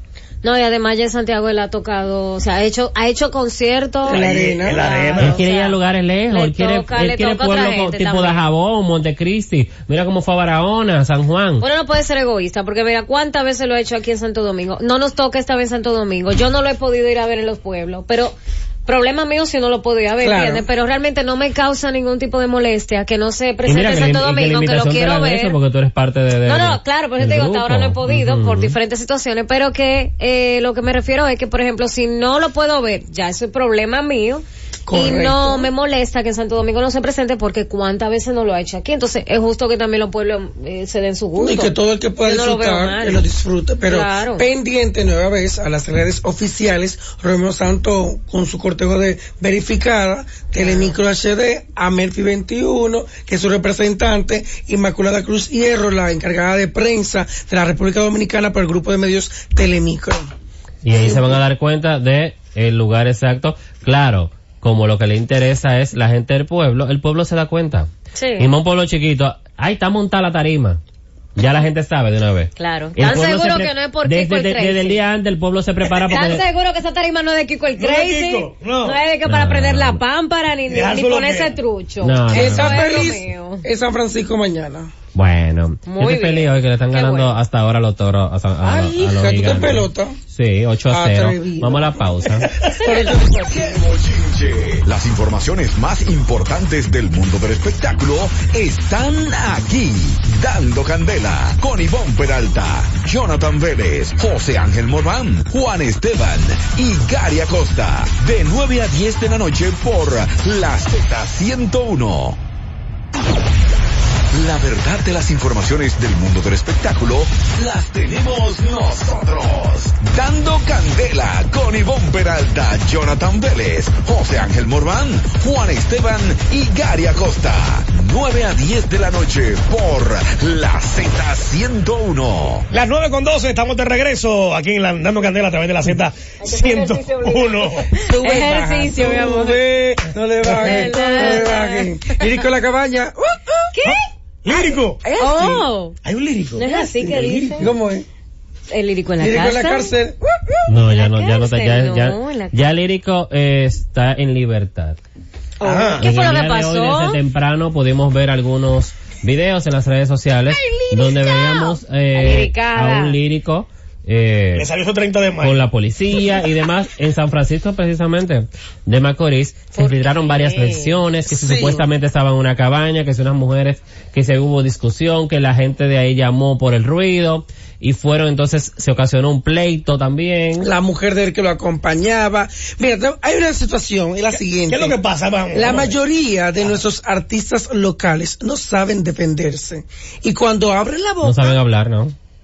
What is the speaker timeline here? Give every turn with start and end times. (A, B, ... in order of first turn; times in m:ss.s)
0:00.4-0:05.8 A
0:04.1-0:04.9 B
0:04.1-0:05.4 C
0:05.2-0:11.6 D
0:06.3-0:08.4 A
0:11.6-0:25.6 A
0:20.2-0:20.6 B
0:23.6-0:28.7 D
0:26.4-0:41.7 A
0:34.8-0:35.7 B
0:41.4-1:00.3 B
0:42.2-0:43.2 A
0:43.9-0:44.4 A
0:50.6-0:51.0 A
1:00.8-1:10.8 D
1:00.9-1:01.4 B
1:08.1-1:08.5 A
1:11.4-1:16.4 D
1:12.6-1:15.0 A
1:16.1-1:16.4 C
1:16.1-1:23.6 A
1:17.8-1:19.0 C
1:19.3-1:20.0 D
1:20.7-1:21.6 C
1:22.0-1:23.0 D
1:22.3-1:24.9 B
1:25.1-1:32.5 D
1:25.9-1:27.4 A
1:28.6-1:30.2 B
1:30.9-1:32.1 B
1:32.6-1:33.8 B
1:32.7-1:33.2 A
1:33.5-1:52.4 E
1:54.3-2:12.7 E
2:12.7-2:18.0 C
2:17.0-2:23.7 B
2:18.0-2:19.6 A
2:20.5-2:22.3 A
2:23.7-2:24.0 A
2:23.8-2:25.0 C
2:24.5-2:25.6 B
2:25.2-2:26.0 A
2:26.0-2:27.7 C
2:26.6-2:27.7 A
2:26.8-2:28.1 B
2:28.7-2:29.9 A
2:29.2-2:30.2 B
2:30.7-2:35.0 D
2:30.8-2:32.6 A
2:35.6-2:37.2 A
2:35.6-2:36.0 C
2:36.0-2:44.7 D
2:40.5-2:41.3 B
2:41.2-2:43.2 A
2:44.5-2:45.6 C
2:45.4-3:00.7 D
2:49.8-2:51.0 A
2:51.3-2:51.8 B
3:00.6-3:05.0 B
3:04.7-3:06.0 C
3:05.5-3:11.6 B
3:11.2-3:12.1 D